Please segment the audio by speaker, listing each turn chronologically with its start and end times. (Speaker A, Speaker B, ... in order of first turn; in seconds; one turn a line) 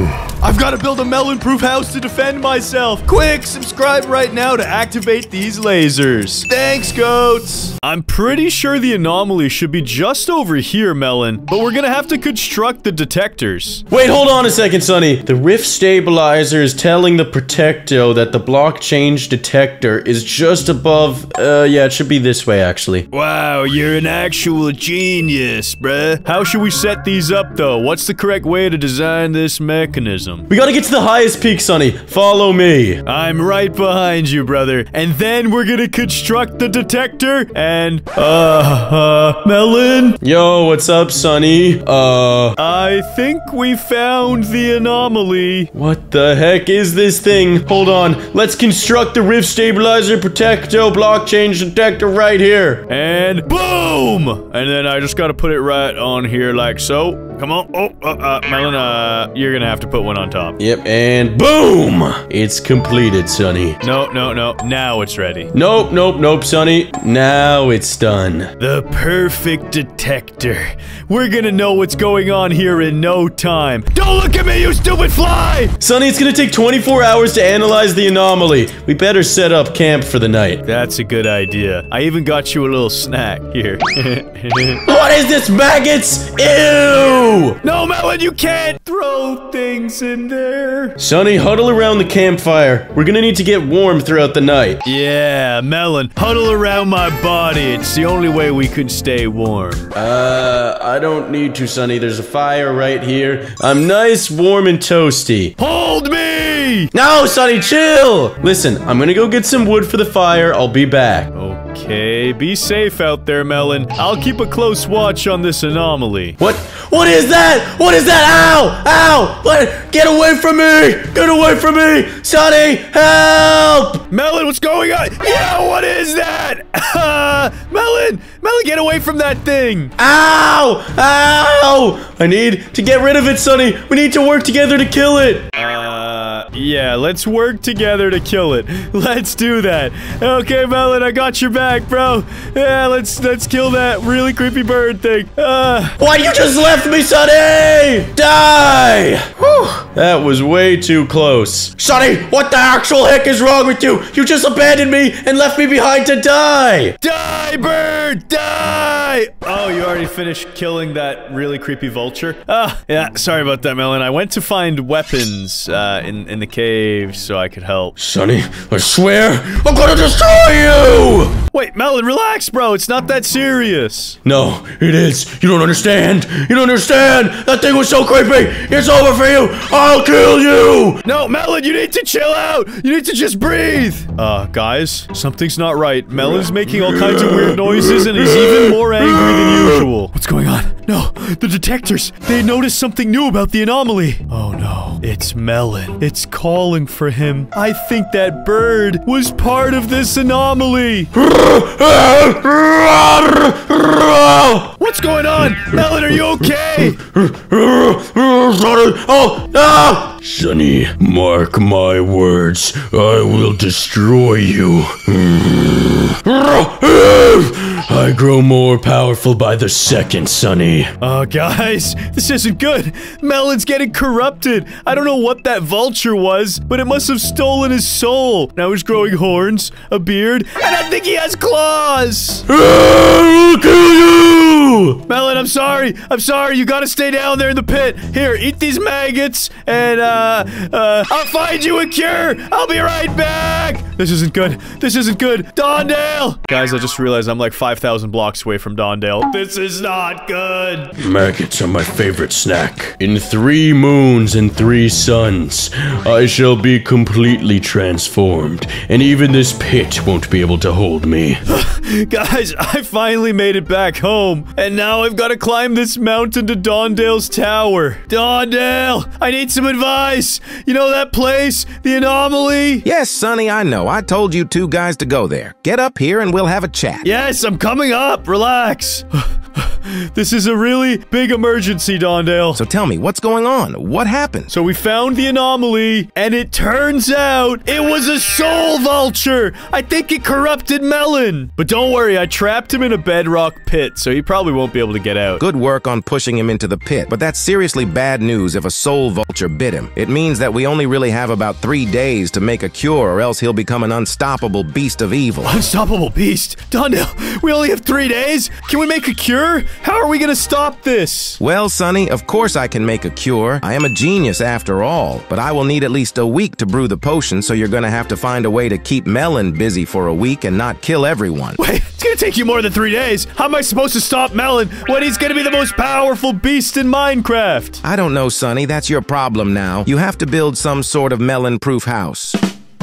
Speaker A: 0.4-13.8
Speaker B: 13.9-23.1
Speaker A: 23.1-30.5
Speaker B: 30.5-33.0
Speaker A: 33.0-40.2
Speaker B: 40.2-42.6
Speaker A: 42.6-45.7
Speaker B: 45.7-52.9
Speaker A: 52.9-60.6
Speaker B: 60.6-63.8
Speaker A: 63.8-65.5
Speaker B: 65.5-68.5
Speaker A: 68.6-75.7
Speaker B: 75.8-80.6
Speaker A: 80.6-84.8
Speaker B: 84.9-87.6
Speaker A: 87.6-91.0
Speaker B: 91.0-94.8
Speaker A: 94.8-99.9
Speaker B: 100.0-105.5
Speaker A: 105.6-106.9
Speaker B: 106.9-111.3
Speaker A: 111.3-116.4
Speaker B: 116.4-124.0
Speaker A: 124.1-129.9
Speaker B: 130.0-135.5
Speaker A: 135.5-146.0
Speaker B: 146.0-157.0
Speaker A: 157.0-167.9
Speaker B: 168.0-171.4
Speaker A: 171.5-174.2
Speaker B: 174.2-181.0
Speaker A: 181.0-201.1
Speaker B: 186.7-189.8
Speaker B: 201.1-204.7
Speaker A: 204.8-207.0
Speaker B: 205.6-220.9
Speaker A: 221.0-232.5
Speaker B: 232.5-235.0
Speaker A: 235.1-250.9
Speaker B: 251.0-261.4
Speaker A: 261.5-272.9
Speaker C: 272.9-277.1
Speaker A: 277.0-282.6
Speaker C: 282.6-284.5
Speaker A: 284.5-295.4
Speaker C: 295.4-305.5
Speaker A: 305.4-311.4
Speaker C: 311.4-321.6
Speaker A: 321.6-327.8
Speaker C: 327.8-332.4